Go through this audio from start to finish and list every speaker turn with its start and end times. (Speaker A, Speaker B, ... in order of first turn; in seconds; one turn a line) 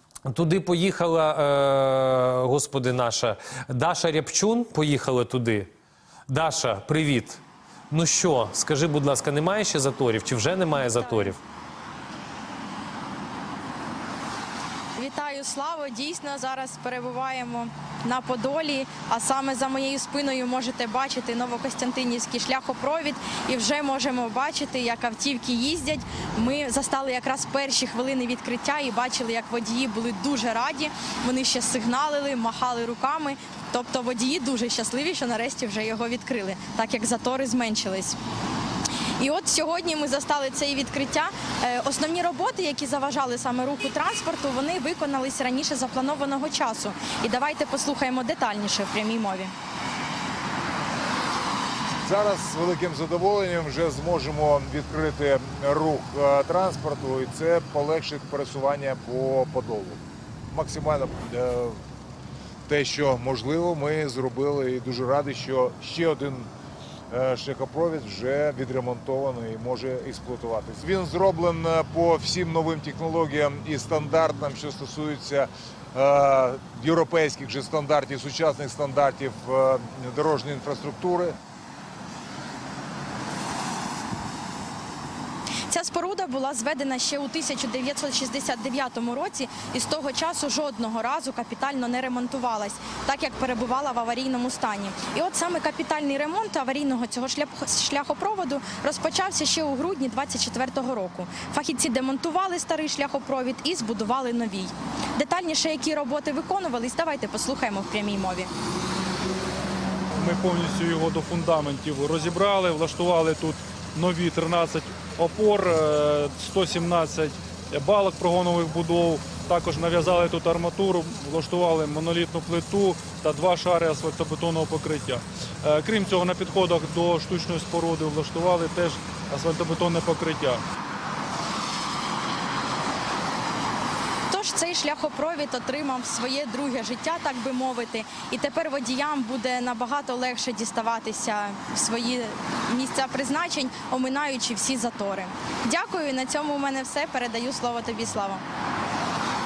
Speaker A: 0.3-5.7
Speaker A: 6.3-11.4
Speaker B: 10.7-11.3
Speaker B: 14.9-38.2
Speaker B: 39.2-49.5
Speaker C: 52.0-61.8
Speaker C: 62.7-66.5
Speaker C: 67.1-81.3
Speaker B: 85.7-108.5
Speaker D: 110.2-130.6
Speaker B: 134.3-148.4